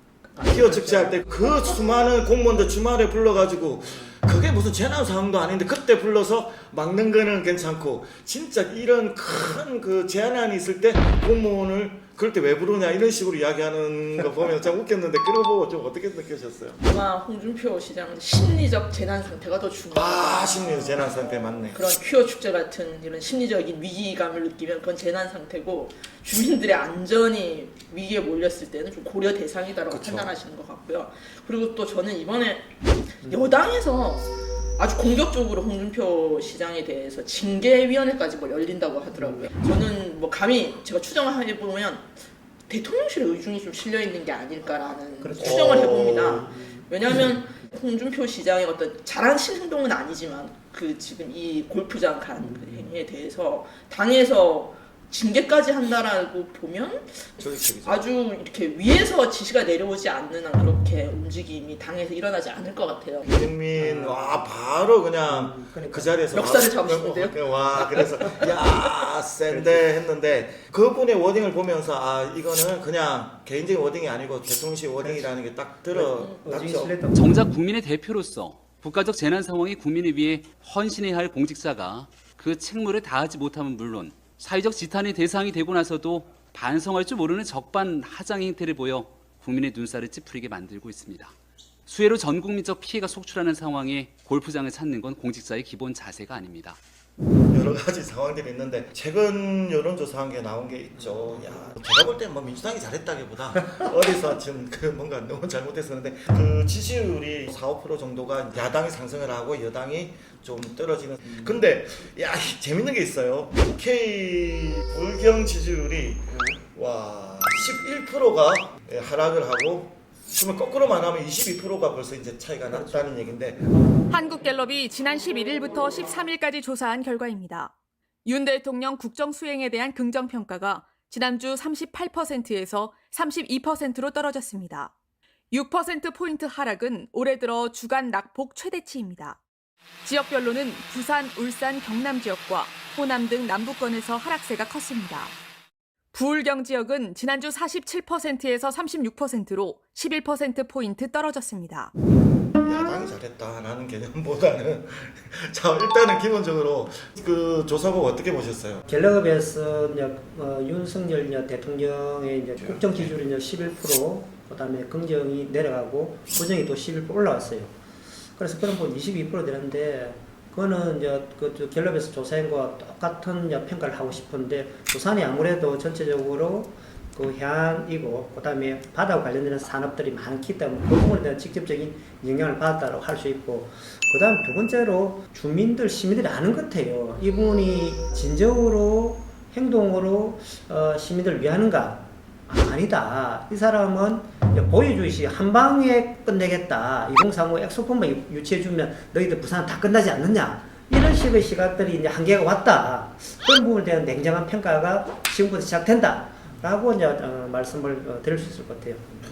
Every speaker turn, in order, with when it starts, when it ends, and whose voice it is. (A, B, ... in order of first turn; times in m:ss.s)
0:00.4-0:01.2 A
0:00.4-0:16.8 B
0:16.8-0:21.1 C
0:19.9-0:21.8 B
0:21.7-0:42.1 C
0:29.9-0:30.3 B
0:33.2-0:33.6 A
0:39.2-0:39.5 A
0:42.7-1:03.3 C
0:45.2-0:47.4 A
0:45.4-0:46.4 B
0:52.4-0:52.9 A
0:57.4-0:58.0 B
1:03.2-1:17.0 B
1:03.8-1:04.5 A
1:05.2-1:06.2 A
1:06.3-1:08.0 C
1:09.5-1:09.9 A
1:15.0-1:15.3 A
1:15.9-1:17.3 A
1:17.1-1:31.3 D
1:31.9-1:36.8 D
1:37.5-2:03.7 B
1:41.0-1:41.5 A
1:51.3-1:51.6 A
1:56.3-1:56.6 A
2:02.7-2:03.1 A
2:04.1-2:07.7 E
2:08.2-2:14.9 E
2:15.5-2:19.4 E
2:20.0-2:25.4 E
2:26.1-2:31.9 E
2:32.6-2:38.8 B
2:38.9-2:47.7 A
2:42.6-2:43.1 B
2:48.4-3:29.1 A